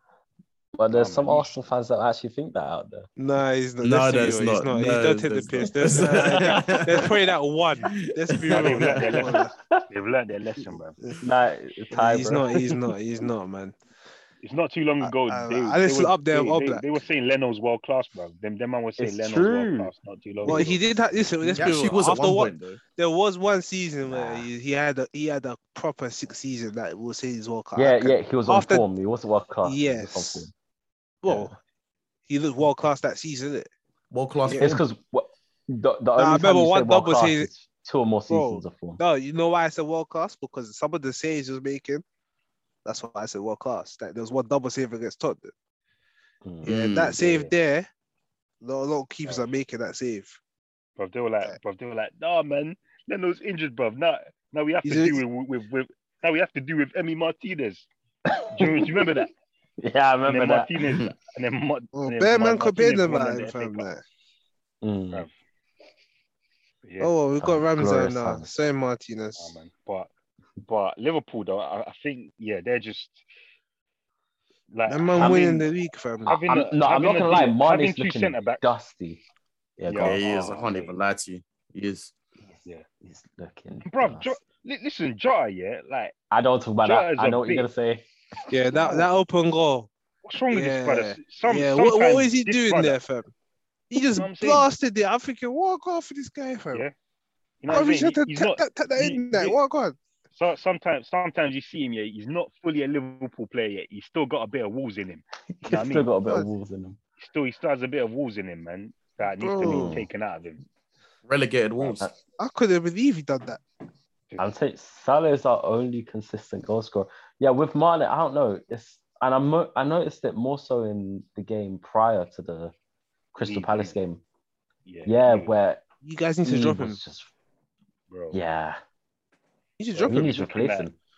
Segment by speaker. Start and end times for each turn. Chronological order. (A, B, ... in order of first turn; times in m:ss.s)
0:00.8-0:03.1 A
0:00.9-0:01.5 B
0:03.2-0:09.5 C
0:03.8-0:07.1 D
0:06.3-0:06.8 A
0:08.3-0:08.7 D
0:08.5-0:11.0 B
0:09.1-0:09.8 A
0:11.2-0:12.8 A
0:11.9-0:13.8 C
0:14.4-0:20.8 B
0:15.0-0:16.8 C
0:19.0-0:19.9 A
0:20.4-0:28.9 C
0:20.5-0:20.7 A
0:21.6-0:22.8 D
0:24.1-0:24.5 A
0:27.8-0:30.5 A
0:29.6-0:30.5 C
0:31.2-0:31.6 C
0:31.3-0:31.5 A
0:32.3-0:33.7 C
0:34.1-0:34.8 D
0:34.5-0:34.8 C
0:34.6-0:39.0 A
0:36.2-0:37.5 C
0:38.3-0:42.0 C
0:42.8-0:45.5 C
0:46.4-0:47.5 A
0:46.6-0:47.2 D
0:46.6-0:47.9 C
0:48.6-0:50.4 C
0:51.0-0:57.9 B
0:54.8-0:55.2 C
0:58.3-0:59.0 A
0:58.6-0:59.3 B
0:59.8-1:01.0 A
1:00.3-1:03.9 B
1:02.0-1:04.0 C
1:04.8-1:05.3 A
1:06.8-1:07.1 B
1:07.0-1:09.6 C
1:07.4-1:08.5 A
1:09.4-1:10.1 B
1:10.6-1:13.2 B
1:14.7-1:15.7 B
1:14.9-1:16.4 C
1:16.3-1:18.7 B
1:16.5-1:19.2 A
1:19.8-1:20.2 A
1:19.9-1:21.0 B
1:20.0-1:22.1 D
1:22.4-1:24.3 A
1:23.8-1:26.1 B
1:26.3-1:28.0 A
1:26.8-1:27.7 B
1:28.5-1:29.9 C
1:28.8-1:29.1 B
1:30.2-1:33.0 B
1:30.5-1:33.3 C
1:33.9-1:36.8 C
1:34.1-1:34.7 B
1:37.6-1:39.6 B
1:37.7-1:40.0 C
1:40.4-1:46.1 B
1:45.6-1:47.0 A
1:47.2-1:50.6 B
1:49.4-1:49.9 C
1:49.6-1:49.9 D
1:49.7-1:50.1 A
1:51.3-1:52.1 D
1:52.4-1:53.6 C
1:54.4-2:02.7 A
2:03.3-2:04.2 A
2:03.4-2:04.0 B
2:04.9-2:05.5 B
2:05.1-2:05.8 A
2:06.0-2:07.0 C
2:06.4-2:07.3 A
2:08.1-2:08.4 B
2:08.3-2:08.8 A
2:09.8-2:10.5 C
2:09.9-2:10.9 B
2:10.1-2:10.9 A